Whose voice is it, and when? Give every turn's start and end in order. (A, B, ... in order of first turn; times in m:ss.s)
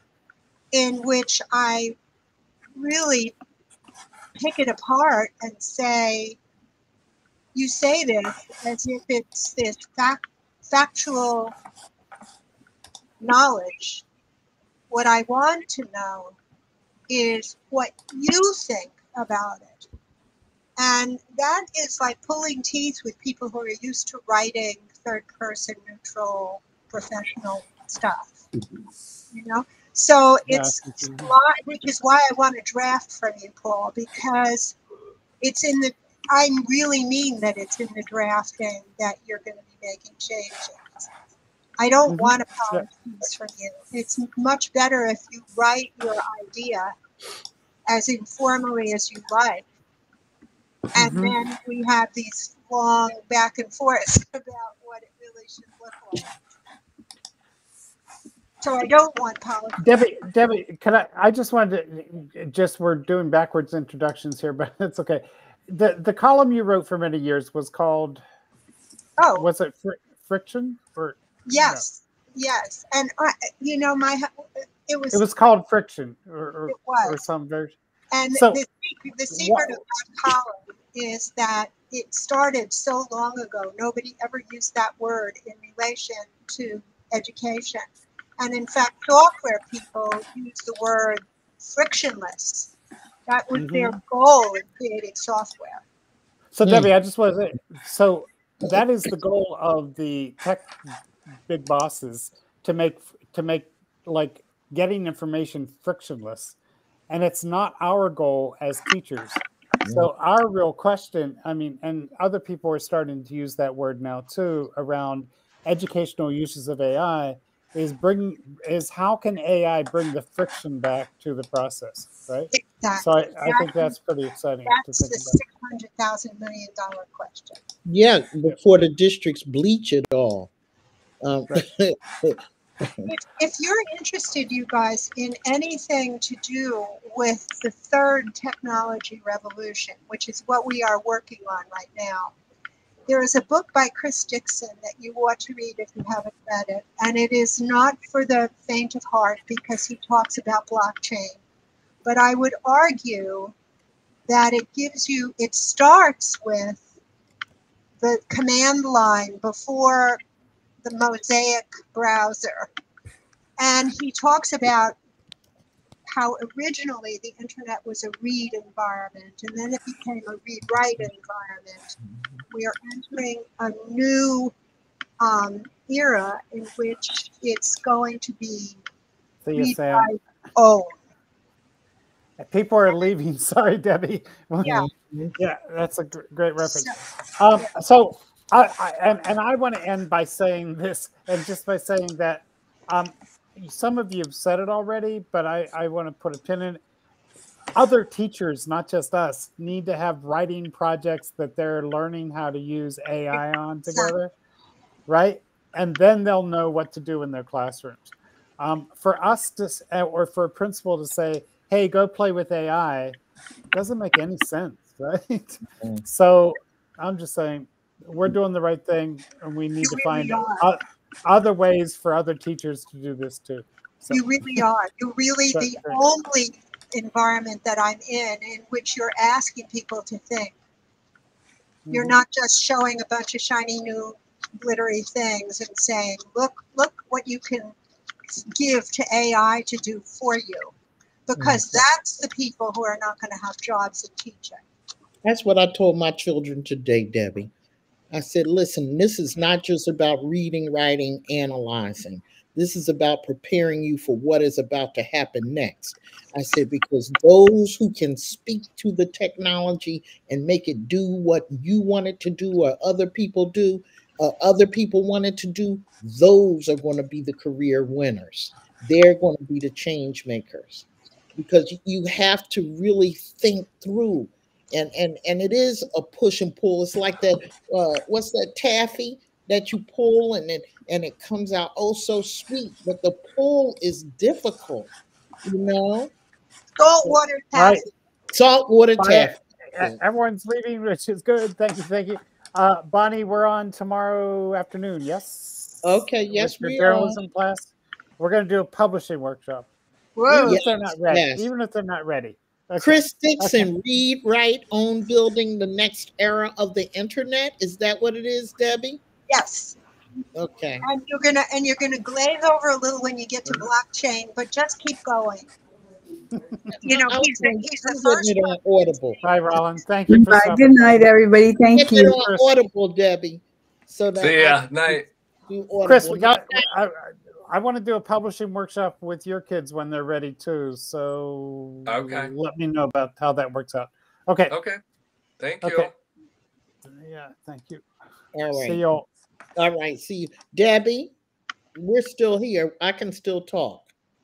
0:00.7-0:02.0 A
0:02.8-0:03.3 A
0:04.4-0:06.4 A
0:07.5-0:11.5 A
0:13.2-0:14.0 A
0:14.9-0:16.4 A
0:17.1-0:19.9 A
0:20.8-0:28.4 A
0:29.3-0:34.8 A
0:30.5-0:31.3 B
0:35.4-0:41.1 A
0:41.8-0:46.9 A
0:42.1-0:42.9 B
0:47.9-0:49.6 A
0:50.9-0:51.4 B
0:50.9-0:56.3 A
0:58.6-0:59.9 A
0:59.8-1:08.2 B
1:09.2-1:09.5 A
1:09.4-1:11.8 B
1:11.4-1:15.2 A
1:15.1-1:17.8 B
1:16.7-1:17.2 A
1:18.1-1:27.8 A
1:18.3-1:18.6 B
1:19.3-1:19.8 B
1:28.4-1:32.7 A
1:33.3-1:35.8 A
1:33.5-1:33.9 B
1:36.5-1:40.9 B
1:36.6-1:36.9 C
1:41.5-1:46.6 B
1:47.1-2:02.5 B
1:49.8-1:50.1 C
2:02.5-2:03.9 A
2:03.0-2:05.4 B
2:04.6-2:07.6 A
2:07.8-2:10.5 C
2:11.2-2:13.1 C
2:13.0-2:22.3 A
2:23.1-2:31.4 A
2:32.0-2:33.5 A
2:34.3-2:36.8 A
2:38.0-2:40.2 A
2:40.8-2:42.7 A
2:43.6-2:45.0 A
2:46.1-2:52.0 A
2:52.0-2:52.3 C
2:52.5-2:54.5 A
2:55.2-2:58.8 A
2:59.4-3:00.1 B
2:59.6-3:01.0 A
3:02.4-3:04.8 B
3:04.6-3:05.3 C
3:05.4-3:16.8 B
3:06.6-3:07.0 A
3:17.8-3:24.3 B
3:23.9-3:24.1 A
3:25.1-3:33.2 B
3:33.7-3:44.6 B
3:39.8-3:40.6 A
3:44.1-3:50.5 A
3:45.5-3:46.0 B
3:51.8-3:52.2 B
3:51.9-3:57.7 A
3:58.3-4:00.7 A
4:01.3-4:04.6 A
4:01.4-4:01.8 C
4:05.2-4:07.5 C
4:08.1-4:44.9 C
4:45.4-4:46.1 C
4:46.8-4:47.9 A
4:47.0-4:47.8 B
4:48.3-4:50.0 C
4:49.0-4:59.7 B
4:55.8-4:57.2 C
5:00.2-5:00.6 A
5:00.3-5:01.4 C
5:00.4-5:03.7 B
5:02.8-5:09.0 C
5:09.3-5:09.8 A
5:10.3-5:10.8 C
5:10.8-5:15.5 A
5:16.4-5:16.7 B
5:16.7-5:19.2 C
5:16.8-5:18.5 A
5:19.2-5:21.0 B
5:20.1-5:22.2 D
5:21.7-5:26.7 C
5:22.2-5:22.4 B
5:24.2-5:25.1 E
5:25.8-5:34.5 B
5:31.9-5:32.3 E
5:34.5-5:34.8 E
5:35.4-5:35.9 E
5:35.6-5:35.9 B
5:36.8-5:37.8 B
5:38.3-5:38.8 C
5:38.5-5:39.1 B
5:39.6-5:41.1 C
5:41.7-5:43.9 C